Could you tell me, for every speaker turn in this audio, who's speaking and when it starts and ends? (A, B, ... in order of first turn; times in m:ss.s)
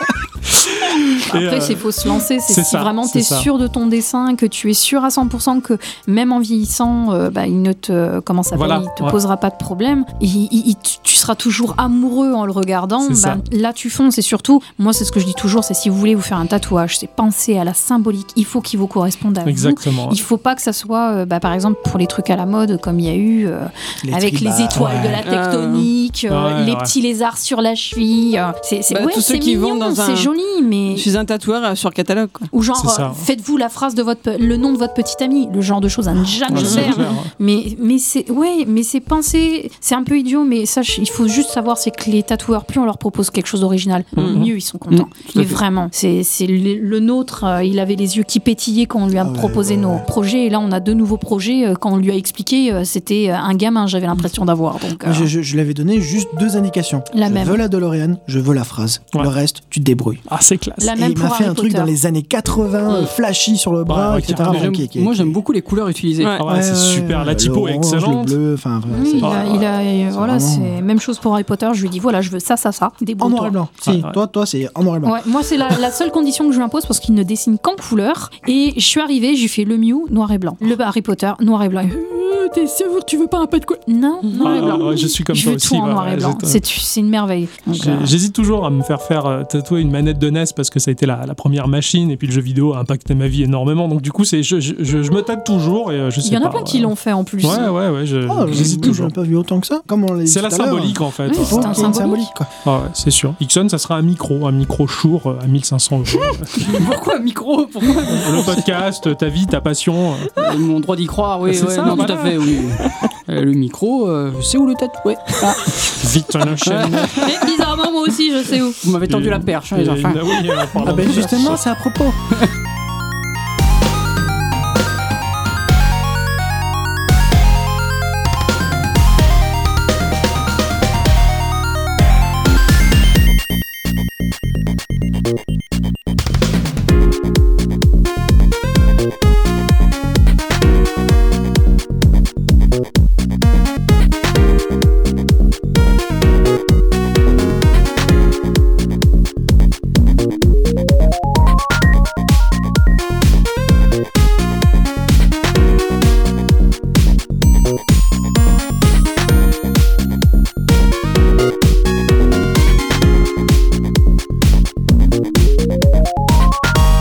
0:00.5-0:03.5 A
0:01.2-0:31.1 B
0:08.5-0:09.1 A
0:13.0-0:13.4 A
0:19.4-0:20.2 A
0:24.0-0:25.2 C
0:24.7-0:25.2 A
0:25.2-0:25.9 D
0:26.3-0:26.9 A
0:28.9-0:30.3 D
0:30.9-0:32.5 D
0:32.5-0:55.3 B
0:32.8-0:33.2 A
0:36.5-0:37.3 A
0:36.5-0:37.1 D
0:44.2-0:44.4 D
0:44.2-0:44.5 A
0:44.9-0:45.6 E
0:49.2-0:50.1 C
0:55.0-1:00.2 C
0:57.1-0:57.6 B
1:00.3-1:00.9 A
1:00.8-1:01.9 B
1:00.9-1:05.4 C
1:03.9-1:04.8 A
1:04.4-1:06.4 E
1:06.4-1:08.4 A
1:06.4-1:10.8 C
1:08.9-1:13.5 B
1:09.2-1:09.5 A
1:13.2-1:15.2 C
1:13.8-1:14.2 A
1:15.0-1:28.1 B
1:24.3-1:24.7 D
1:24.4-1:26.6 A
1:27.7-1:39.1 A
1:36.2-1:37.7 B
1:38.2-1:42.5 C
1:40.2-1:42.0 A
1:41.3-1:42.3 B
1:42.6-1:46.7 A
1:46.5-1:48.6 E
1:48.1-1:50.3 A
1:50.4-1:56.0 E
1:51.4-1:52.6 A
1:55.8-1:57.3 A
1:56.6-1:57.5 E
1:57.2-1:58.8 B
1:58.8-2:01.0 E
1:59.0-2:01.6 A
2:00.8-2:02.2 C